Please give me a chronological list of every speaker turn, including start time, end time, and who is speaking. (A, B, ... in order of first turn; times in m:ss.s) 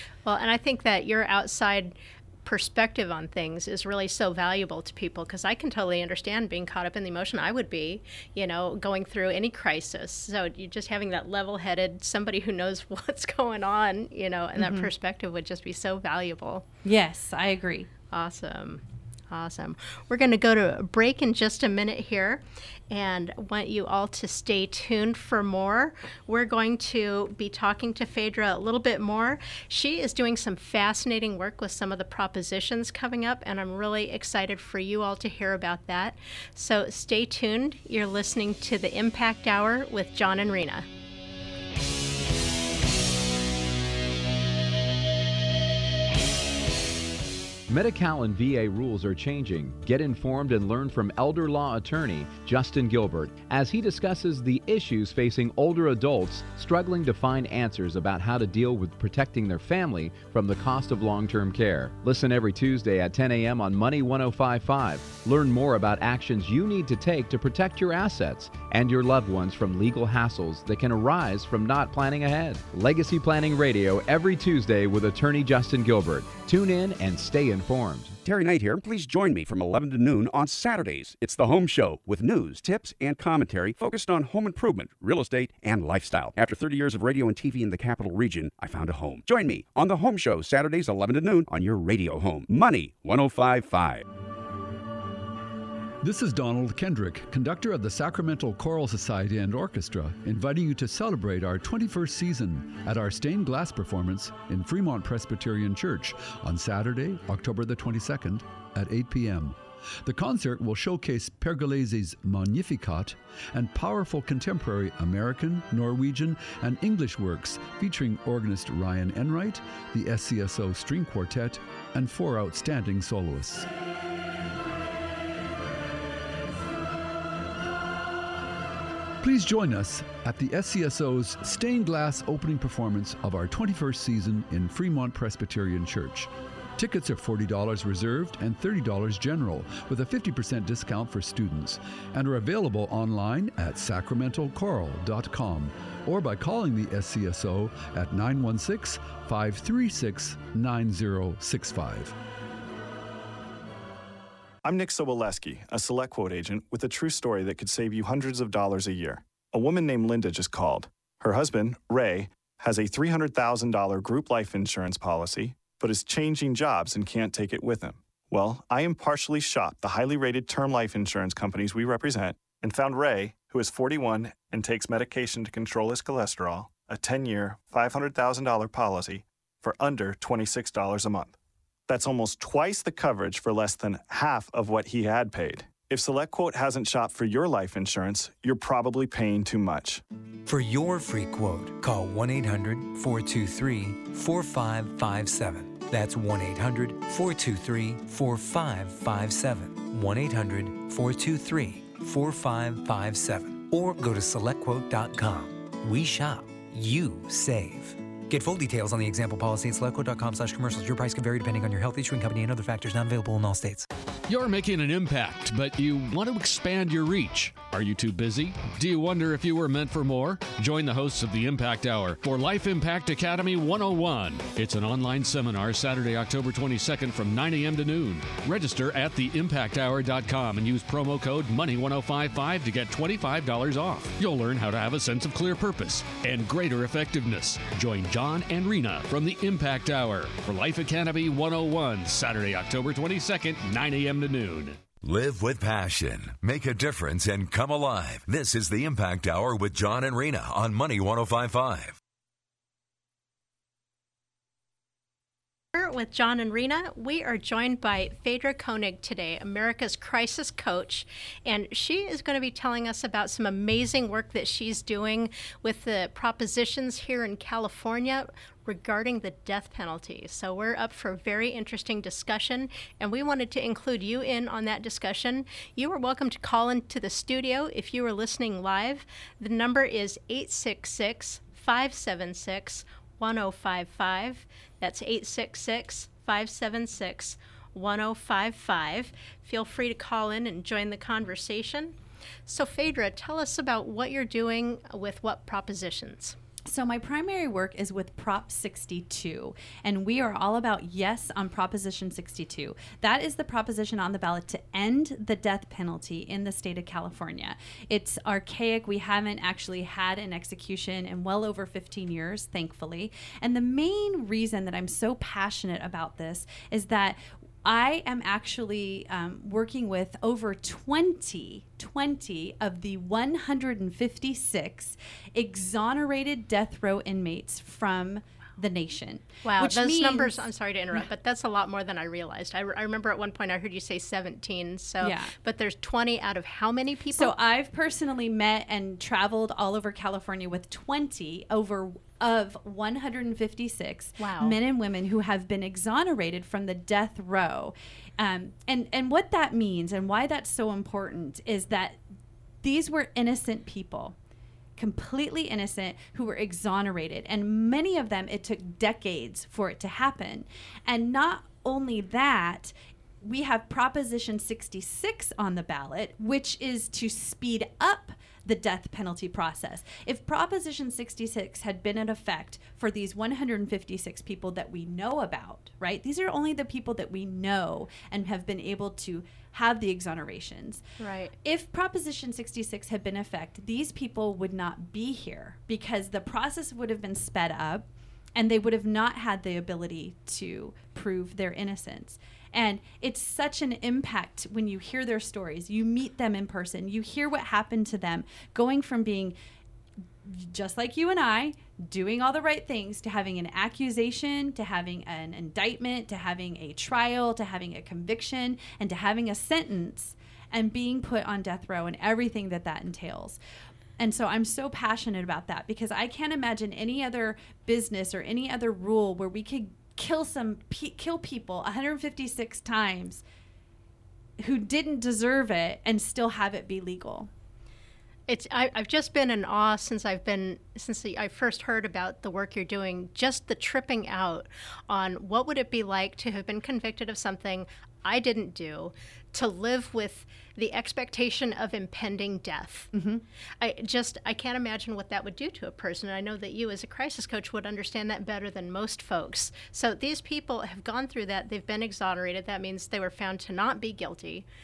0:00.2-0:16.6 A
0:14.6-0:14.9 B
0:16.8-0:17.9 B
0:18.1-0:40.9 A
0:47.7-1:18.2 C
1:18.2-1:34.0 D
1:36.0-2:03.7 E
2:09.2-2:32.2 E
2:34.6-3:01.3 F
3:01.9-3:10.0 F
3:10.5-3:33.9 G
3:34.3-4:04.8 H
4:05.0-4:12.0 I
4:15.7-4:51.9 A
4:52.5-4:56.4 A
4:56.7-5:31.0 B
5:29.4-5:37.3 A
5:35.0-5:35.3 B
5:37.1-5:52.0 B
5:44.2-5:44.6 A
5:52.6-5:54.2 B
5:54.8-6:20.8 B
6:21.0-6:21.3 A
6:21.4-6:39.4 B
6:40.2-6:53.4 B
6:54.0-7:03.2 B
7:04.4-7:07.3 B
7:08.3-7:22.9 A
7:22.9-7:23.2 B
7:23.6-7:34.5 A